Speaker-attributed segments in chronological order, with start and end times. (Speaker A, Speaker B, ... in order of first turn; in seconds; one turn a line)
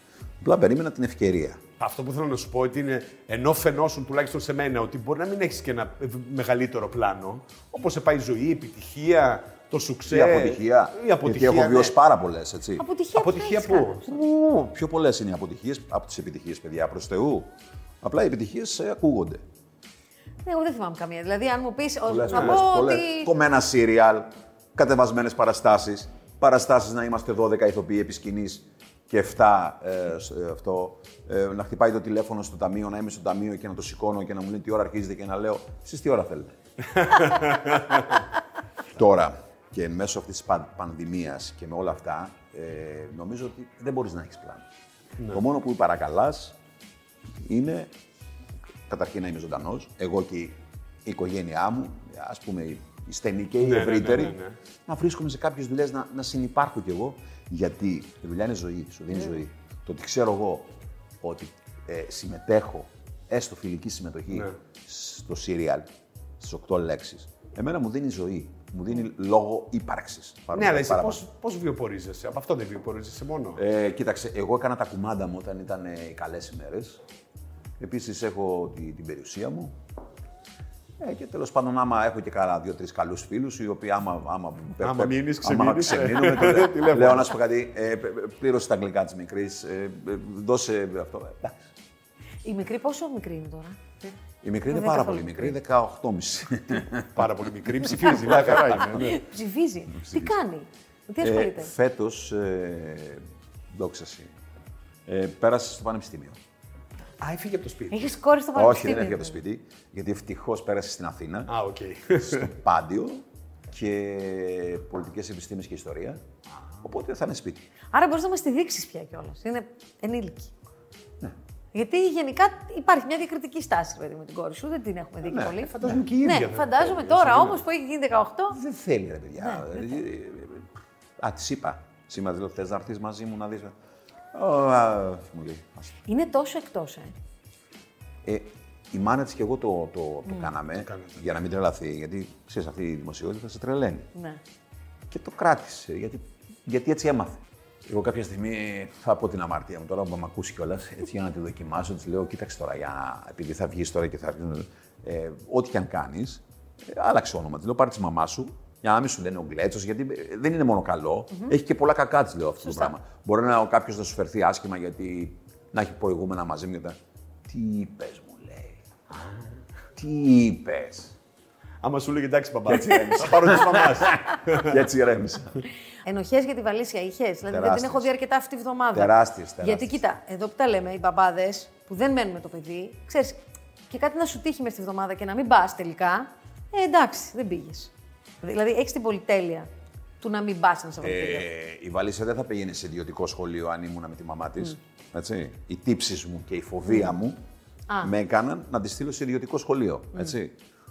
Speaker A: 0.4-1.6
Speaker B: 1.8-12.0
Speaker A: 10.1-12.8
Speaker C: 12.8-14.1
Speaker B: 13.2-14.1
Speaker A: 14.1-19.4
Speaker C: 20.4-23.3
Speaker A: 22.1-36.5
Speaker B: 22.3-22.6
Speaker B: 37.0-38.1
Speaker A: 38.9-44.6
Speaker A: 45.3-46.6
Speaker A: 47.4-47.9
Speaker A: 48.9-65.9
Speaker B: 53.6-54.6
Speaker B: 64.3-64.6
Speaker A: 66.4-71.2
Speaker B: 70.5-73.6
Speaker A: 73.6-77.0
Speaker A: 77.8-79.8
Speaker A: 81.0-91.6
Speaker B: 84.8-87.3
Speaker C: 92.4-93.8
Speaker A: 94.4-97.3
Speaker C: 94.7-95.5
Speaker B: 97.2-99.2
Speaker A: 98.0-99.1
Speaker C: 98.9-101.7
Speaker A: 100.0-100.3
Speaker A: 101.2-104.3
Speaker A: 105.1-106.4
Speaker B: 107.2-108.1
Speaker C: 107.9-109.4
Speaker A: 108.5-111.5
Speaker B: 111.5-112.5
Speaker A: 112.3-116.2
Speaker A: 116.8-117.6
Speaker C: 117.9-120.5
Speaker C: 121.7-128.6
Speaker A: 125.2-126.0
Speaker B: 125.6-127.6
Speaker A: 128.5-130.7
Speaker C: 129.4-130.0
Speaker A: 131.2-133.8
Speaker A: 134.3-135.9
Speaker C: 136.1-137.1
Speaker A: 138.2-144.1
Speaker B: 140.8-141.3
Speaker C: 144.2-144.4
Speaker A: 145.1-168.8
Speaker C: 162.6-162.9
Speaker B: 169.1-169.4
Speaker A: 170.0-171.1
Speaker B: 171.8-174.8
Speaker A: 172.7-175.7
Speaker C: 176.0-189.7
Speaker A: 177.5-178.1
Speaker A: 178.9-180.0
Speaker C: 190.2-191.5
Speaker A: 191.0-197.4
Speaker A: 198.0-200.6